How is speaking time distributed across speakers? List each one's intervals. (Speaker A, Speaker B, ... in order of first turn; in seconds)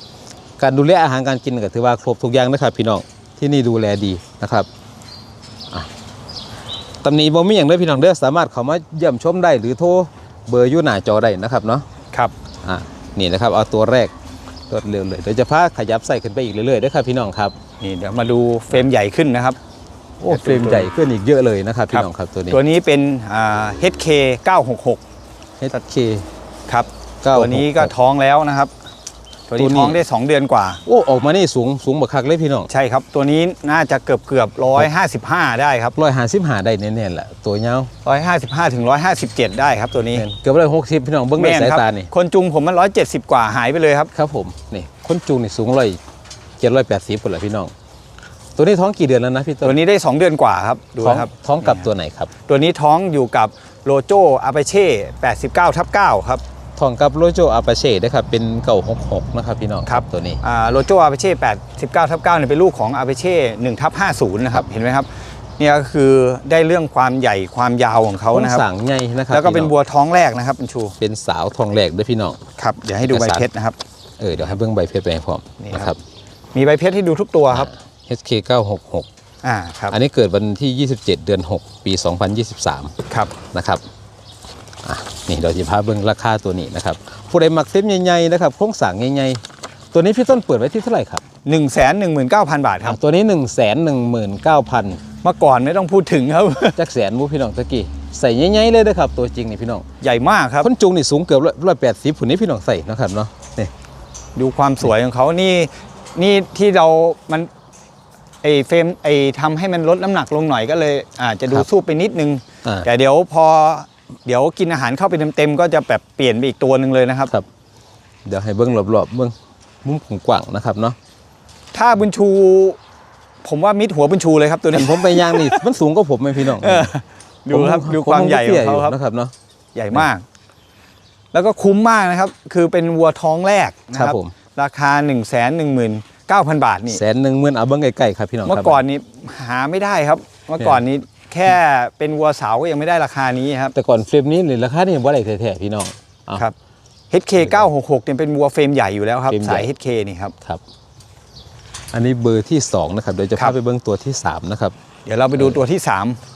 Speaker A: 0.6-4.7, 7.0-11.9, 12.6-14.1, 14.7-17.5, 20.2-22.6, 25.6-26.3, 27.2-27.9, 29.6-30.0, 30.9-32.7, 35.9-37.9, 40.1-42.1, 44.1-46.0, 46.6-47.7, 48.6-49.8, 51.0-52.3, 56.8-60.4, 68.3-69.7, 71.0-72.4, 73.1-73.5, 74.2-76.0, 77.5-79.1, 79.9-83.8, 84.8-89.4, 89.9-91.2, 92.8-95.0, 96.8-99.8, 100.6-103.7, 118.2-121.0, 124.7-126.9, 127.5-129.3, 133.9-134.3, 136.9-138.8, 143.7-146.4, 149.3-149.7, 151.9-154.7
Speaker B: 17.8-19.6, 20.3-20.9, 21.9-25.0, 26.7-28.7, 29.5-30.8, 32.7-35.9, 38.0-40.2, 41.4-44.1, 49.6-51.8, 52.5-56.4, 59.9-65.1, 65.6-68.6, 69.3-71.0, 72.6-73.8, 75.6-75.9, 76.5-77.7, 79.4-79.9, 91.4-93.0, 95.2-96.8, 100.0-100.7, 104.3-107.5, 108.4-117.3, 121.7-122.8, 123.4-125.6, 126.6-128.9, 129.7-130.2, 131.3-137.0, 138.4-143.7, 147.1-150.3, 155.1-156.2